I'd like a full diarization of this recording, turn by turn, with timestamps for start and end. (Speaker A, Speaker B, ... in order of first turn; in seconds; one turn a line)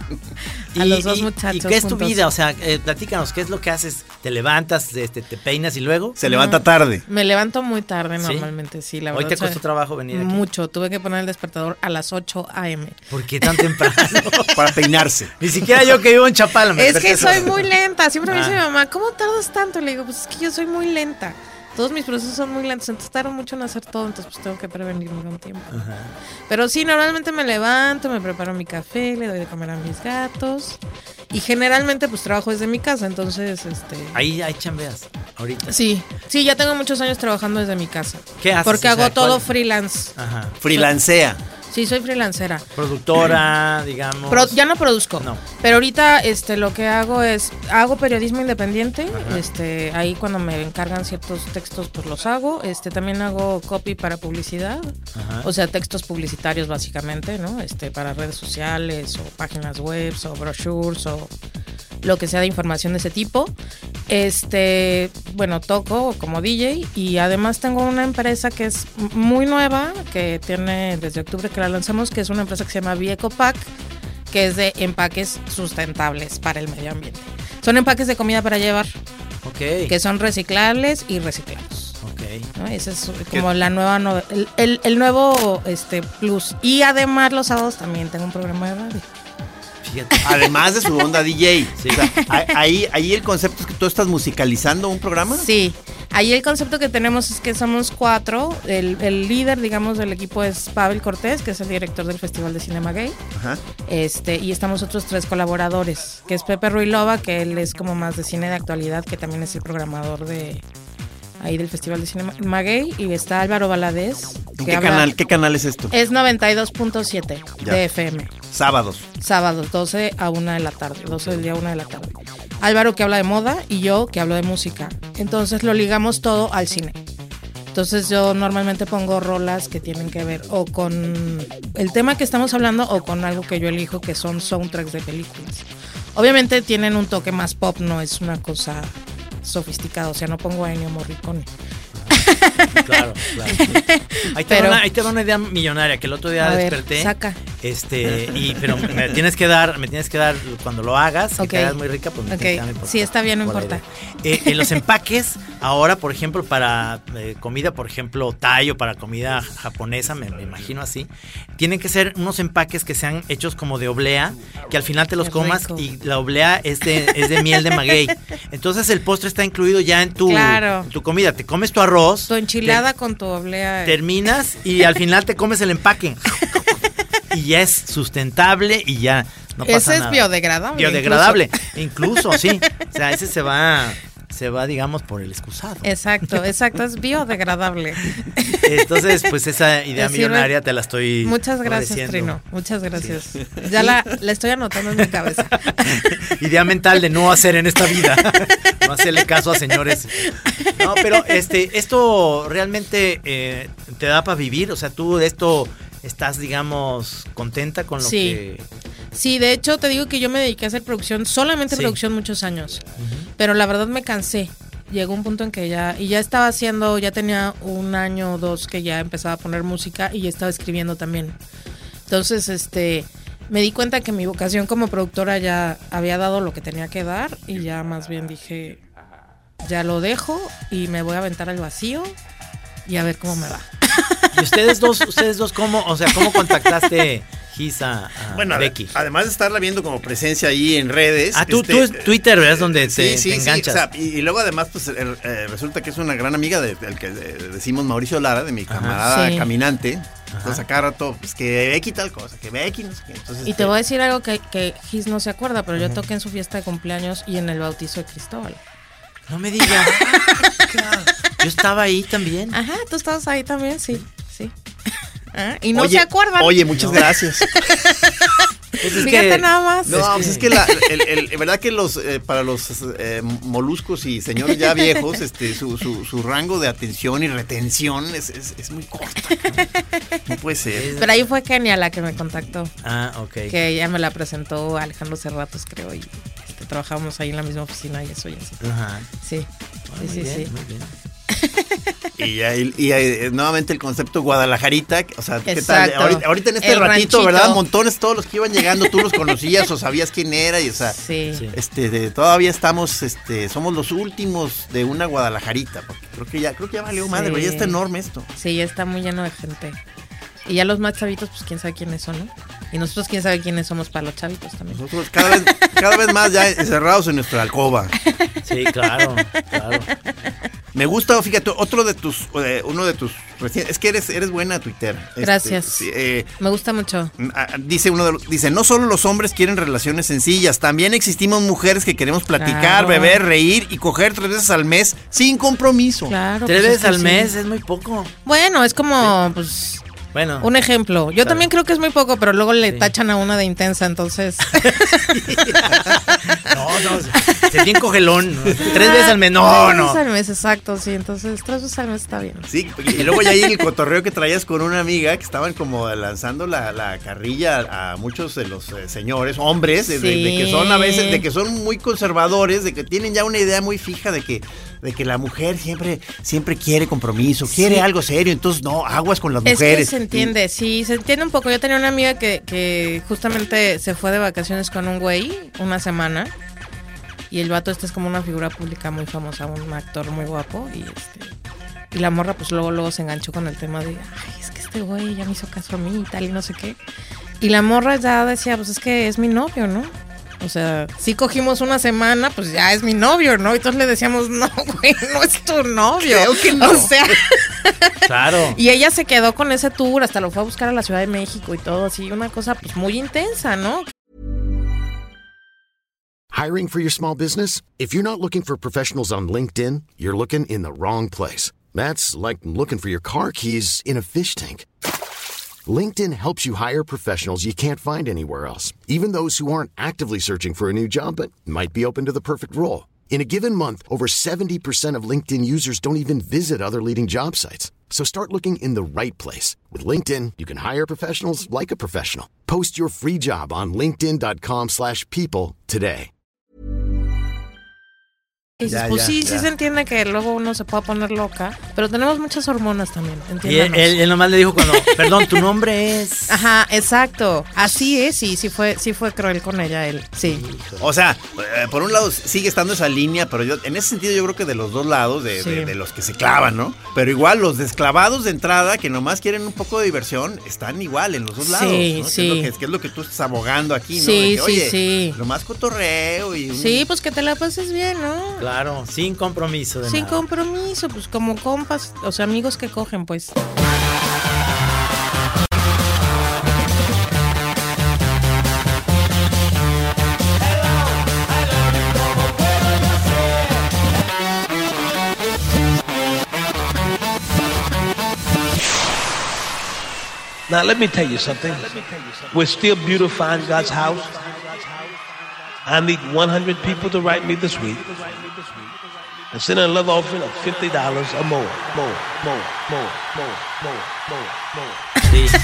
Speaker A: 0.6-2.2
Speaker B: 0.7-6.2
Speaker C: 6.2-7.0
Speaker A: 6.2-9.6
Speaker B: 8.2-8.5
Speaker B: 9.1-10.4
Speaker A: 10.1-14.2
Speaker B: 13.1-14.6
Speaker C: 14.5-15.3
Speaker B: 15.4-17.7
Speaker A: 16.8-25.7
Speaker C: 16.9-17.5
Speaker B: 18.3-18.6
Speaker B: 25.7-26.1
Speaker A: 26.5-30.8
Speaker A: 31.3-34.2
Speaker B: 34.1-35.7
Speaker A: 35.7-40.1
Speaker B: 38.4-39.5
Speaker B: 40.2-40.5
Speaker C: 40.6-41.4
Speaker A: 41.7-42.6
Speaker B: 42.8-44.6
Speaker A: 44.3-61.3
Speaker B: 49.1-49.4
Speaker B: 55.1-55.5
Speaker A: 62.0-63.5
Speaker A: 64.1-73.7
Speaker A: 74.3-78.9
Speaker B: 79.4-79.9
Speaker A: 79.9-82.0
Speaker B: 82.0-82.5
Speaker A: 82.5-89.0
Speaker B: 89.8-90.2
Speaker C: 90.2-95.5
Speaker B: 91.8-92.0
Speaker A: 95.3-103.2
Speaker C: 103.3-103.6
Speaker A: 103.8-110.6
Speaker A: 111.4-115.1
Speaker C: 114.6-115.9
Speaker A: 115.9-118.3
Speaker C: 118.4-119.0
Speaker A: 119.2-127.0
Speaker B: 121.1-121.4
Speaker A: 127.7-141.5
Speaker A: 142.1-144.8
Speaker B: 142.8-172.8
Speaker A: 146.4-147.4
Speaker A: 148.5-148.9
Speaker A: 151.4-151.8
Speaker A: 152.3-153.8
Speaker A: 154.4-154.7
Speaker A: 165.2-165.8
Speaker A: 170.2-170.8
Speaker A: 172.3-174.0
Speaker B: 173.8-176.6
Speaker B: 177.3-186.4
Speaker A: 179.7-181.7
Speaker A: 182.3-182.9
Speaker A: 185.8-188.7
Speaker B: 188.2-192.4
Speaker A: 189.9-190.5
Speaker A: 191.2-196.1
Speaker B: 193.0-193.2
Speaker B: 195.5-208.6
Speaker A: 199.7-201.4
Speaker A: 208.0-208.4
Speaker A: 209.1-212.8
Speaker B: 211.7-212.0
Speaker B: 213.0-213.3
Speaker A: 213.4-221.4
Speaker A: 222.1-228.8
Speaker A: 229.6-232.1
Speaker A: 232.8-234.6
Speaker B: 234.3-238.9
Speaker A: 236.2-236.8
Speaker C: 238.3-253.7
Speaker B: 241.3-243.8
Speaker B: 248.7-249.0
Speaker A: 249.0-249.5
Speaker B: 250.3-250.6
Speaker A: 253.4-258.6
Speaker B: 255.8-256.0
Speaker B: 259.3-260.8
Speaker A: 259.8-260.6
Speaker C: 260.7-261.1
Speaker B: 261.4-262.6
Speaker A: 262.5-264.5
Speaker A: 265.3-270.9
Speaker C: 265.7-267.7
Speaker B: 266.7-267.0
Speaker B: 268.8-270.4
Speaker C: 269.9-279.5
Speaker A: 274.5-274.9
Speaker A: 279.4-280.1
Speaker C: 280.2-280.9
Speaker B: 280.7-281.1
Speaker A: 281.0-282.7
Speaker B: 282.8-283.5
Speaker A: 283.5-288.6
Speaker B: 288.6-289.1
Speaker A: 289.2-289.5
Speaker B: 289.9-290.9
Speaker A: 290.0-290.5
Speaker A: 291.3-291.8
Speaker C: 292.2-301.0
Speaker A: 295.5-297.6
Speaker A: 300.9-301.4
Speaker C: 301.5-308.3
Speaker A: 307.1-307.8
Speaker A: 308.4-309.8
Speaker A: 310.5-315.8
Speaker C: 314.7-317.9
Speaker A: 318.0-320.1
Speaker B: 318.4-319.9
Speaker C: 320.7-326.3
Speaker A: 325.2-325.9
Speaker A: 326.4-327.1
Speaker C: 327.2-336.1
Speaker A: 332.3-333.2
Speaker A: 336.1-337.3
Speaker B: 336.4-338.1
Speaker A: 338.2-339.8
Speaker B: 340.1-340.5
Speaker A: 340.4-345.4
Speaker B: 344.5-345.6
Speaker C: 345.6-346.0
Speaker B: 346.3-350.0
Speaker A: 347.2-347.5
Speaker A: 348.6-352.5
Speaker C: 352.5-370.3
Speaker A: 359.9-361.2
Speaker A: 367.5-367.8
Speaker A: 369.4-376.3
Speaker A: 377.3-381.3
Speaker A: 381.9-386.8
Speaker A: 387.4-398.0
Speaker C: 396.0-396.9
Speaker B: 398.0-398.6
Speaker A: 398.5-403.9
Speaker D: 406.3-414.6
Speaker D: 415.6-436.1
Speaker A: 438.6-444.0
Speaker C: 438.6-439.5
Speaker B: 443.4-446.4
Speaker A: 444.6-445.4
Speaker A: 446.3-450.4
Speaker B: 450.2-450.8
Speaker C: 450.8-466.9
Speaker A: 455.4-455.7
Speaker A: 461.4-462.5
Speaker A: 463.9-465.2
Speaker A: 466.5-468.4
Speaker B: 468.4-470.2
Speaker A: 469.9-473.3
Speaker E: 490.5-494.4
Speaker E: 495.6-498.6
Speaker E: 499.3-504.8
Speaker B: 505.1-505.4